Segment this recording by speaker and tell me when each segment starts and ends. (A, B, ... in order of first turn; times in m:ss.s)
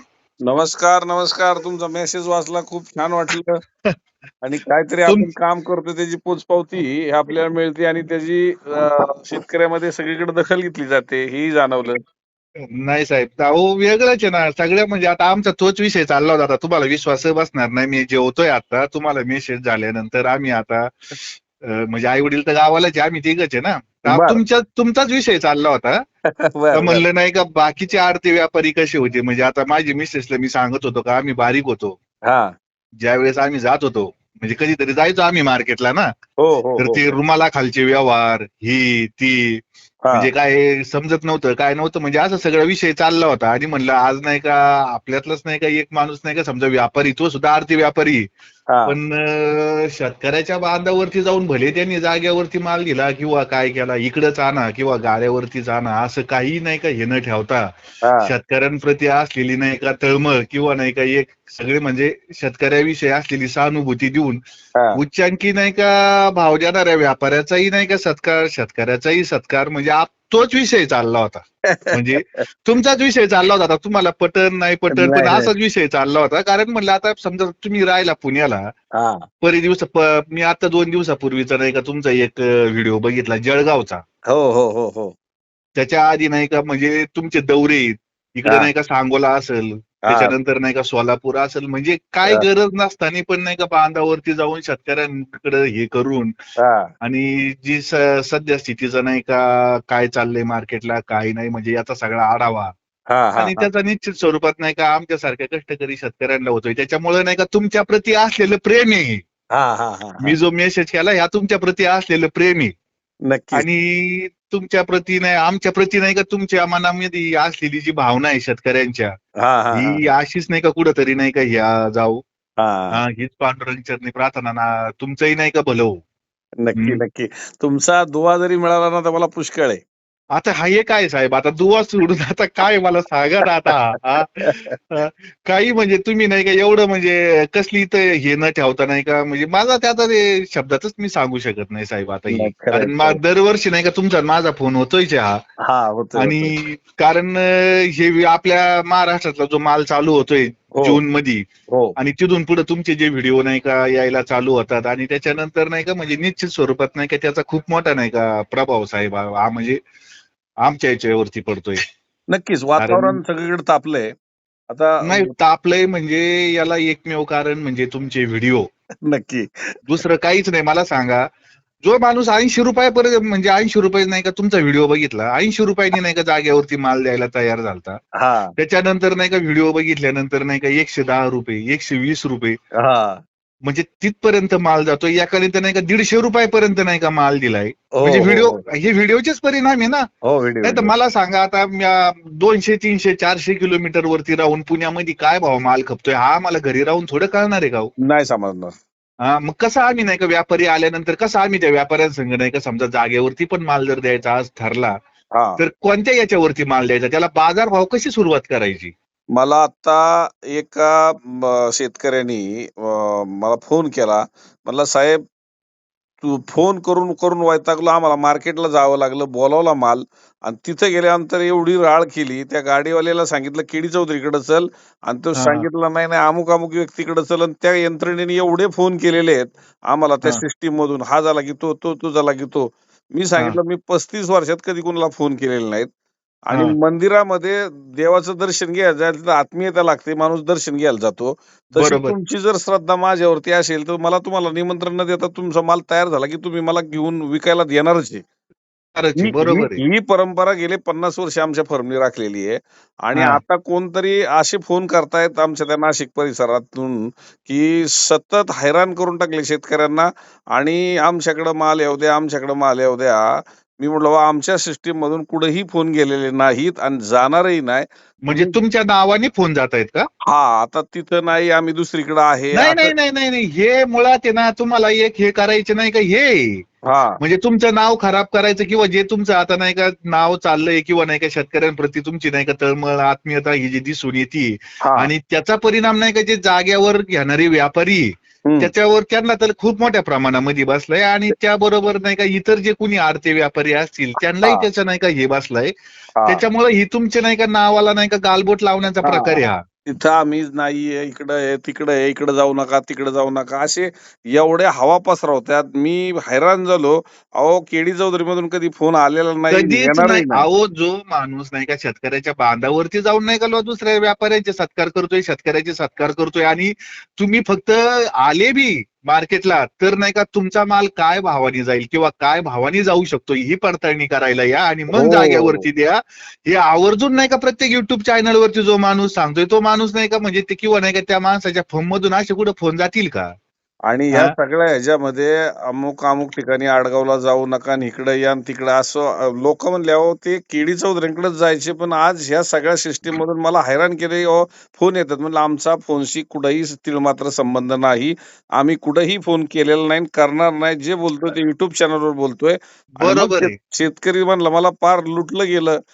0:00.4-0:03.6 A
0:04.4-0:12.0 A
0:12.7-0:20.9 B
0:21.6-0:26.0 B
0:24.1-0:24.4 A
0:26.6-0:27.0 A
0:26.7-0:32.0 B
0:32.2-0:32.5 A
0:33.0-0:36.1 B
0:36.4-0:37.1 A
0:36.8-0:48.3 B
0:48.7-0:49.0 A
0:48.9-0:57.7 B
0:58.0-0:58.3 A
0:58.2-1:04.4 B
1:05.0-1:18.7 B
1:11.7-1:12.4 A
1:14.9-1:15.5 A
1:19.0-1:19.2 A
1:19.4-1:24.0 B
1:24.3-1:25.1 A
1:25.8-1:36.3 B
1:28.4-1:28.7 A
1:30.1-1:30.4 A
1:36.6-1:36.9 A
1:37.0-1:42.7 B
1:43.1-1:43.7 A
1:43.4-1:49.2 B
1:49.5-1:50.3 A
1:50.2-1:52.7 B
1:53.3-1:53.7 A
1:53.5-1:59.1 B
1:59.4-2:00.0 A
1:59.7-2:02.2 B
2:02.6-2:03.0 A
2:02.9-2:06.0 B
2:06.6-2:09.8 A
2:10.3-2:25.4 B
2:14.4-2:14.8 A
2:22.3-2:23.2 A
2:25.6-2:26.5 A
2:26.2-2:31.4 B
2:30.7-2:31.0 A
2:31.7-2:31.9 A
2:32.0-2:39.8 B
2:40.6-2:41.8 B
2:42.3-2:44.1 A
2:42.8-2:43.2 B
2:44.7-2:45.3 A
2:45.0-2:48.7 B
2:49.1-2:49.5 A
2:49.9-2:51.2 B
2:51.8-2:58.0 B
2:58.2-2:58.5 A
2:58.6-3:02.6 B
3:02.8-3:03.2 A
3:03.6-3:10.0 B
3:08.0-3:08.6 A
3:10.2-3:10.9 A
3:10.6-3:17.9 B
3:18.0-3:18.7 A
3:19.2-3:25.0 B
3:25.3-3:25.6 A
3:25.6-3:28.9 B
3:29.3-3:35.2 A
3:36.2-3:55.9 A
3:45.3-3:45.6 B
3:56.5-4:08.2 A
4:01.8-4:02.2 B
4:09.0-4:09.8 B
4:09.2-4:23.2 A
4:13.1-4:13.4 B
4:23.8-4:28.6 A
4:28.2-4:30.1 B
4:30.3-4:32.9 A
4:32.5-4:36.6 B
4:36.8-4:37.2 A
4:37.2-4:55.7 B
4:44.8-4:45.1 A
4:48.4-4:48.7 A
4:56.2-4:59.6 B
4:59.0-5:10.4 A
5:09.5-5:33.3 B
5:24.9-5:25.6 A
5:33.9-5:55.8 A
5:53.0-5:53.5 B